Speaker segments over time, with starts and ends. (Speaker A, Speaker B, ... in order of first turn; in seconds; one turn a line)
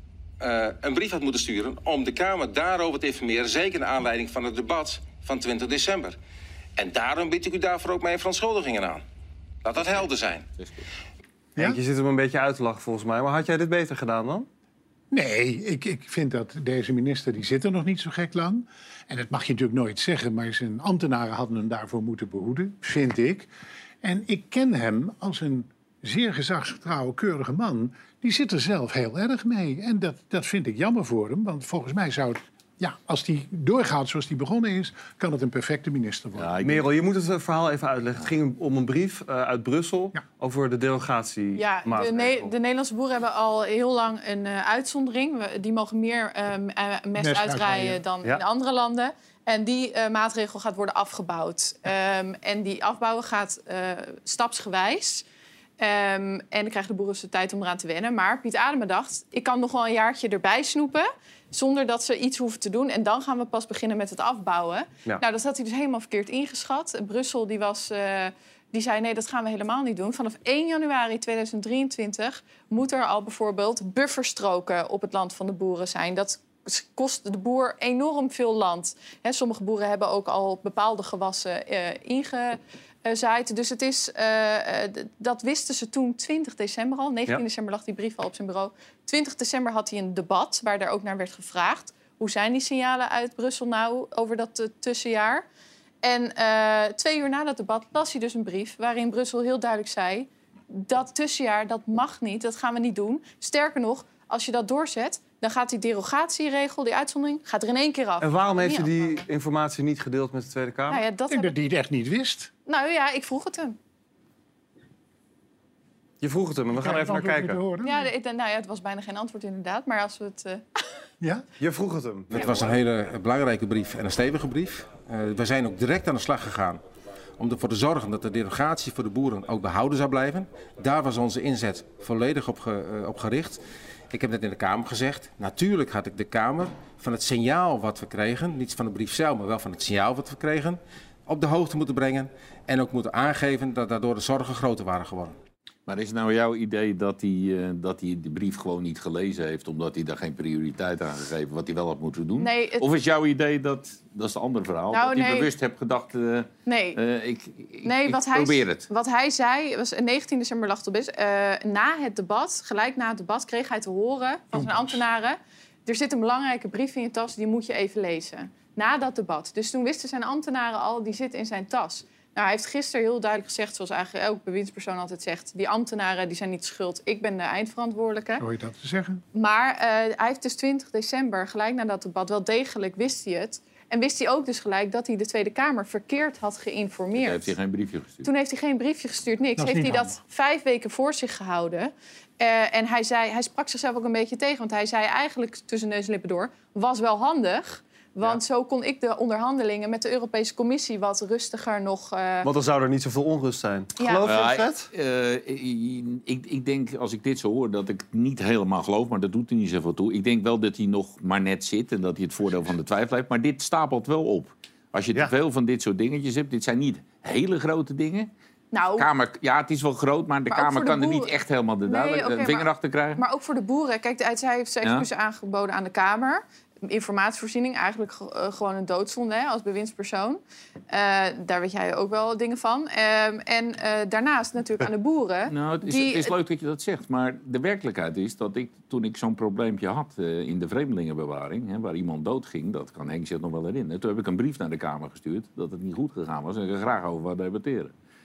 Speaker A: 0.4-6.2
Speaker A: 6.8-9.0
Speaker A: 9.6-10.4
Speaker B: 11.6-14.5
Speaker C: 15.1-23.5
Speaker C: 24.0-36.5
Speaker D: 36.4-36.9
Speaker B: 36.6-42.5
Speaker E: 41.6-55.2
Speaker C: 47.2-48.0
Speaker E: 55.8-95.4
Speaker E: 96.0-108.9
Speaker B: 108.2-111.1
Speaker E: 110.9-111.5
Speaker C: 111.2-112.5
Speaker E: 112.7-113.8
Speaker B: 116.2-117.7
Speaker C: 116.7-118.1
Speaker E: 117.8-120.8
Speaker B: 121.6-122.3
Speaker F: 122.3-126.8
Speaker F: 127.4-133.6
Speaker F: 134.1-145.3
Speaker D: 145.9-158.9
Speaker E: 152.4-152.9
Speaker E: 154.9-155.5
Speaker E: 156.7-157.0
Speaker E: 157.8-178.4
Speaker C: 164.5-164.9
Speaker C: 178.4-179.2
Speaker E: 179.3-187.5
Speaker D: 187.2-188.2
Speaker E: 188.2-202.5
Speaker C: 189.6-190.2
Speaker B: 202.4-204.9
Speaker E: 204.0-204.3
Speaker D: 204.2-218.3
Speaker E: 218.7-219.1
Speaker D: 219.0-223.2
Speaker E: 220.5-236.3
Speaker D: 224.8-225.1
Speaker D: 235.5-247.9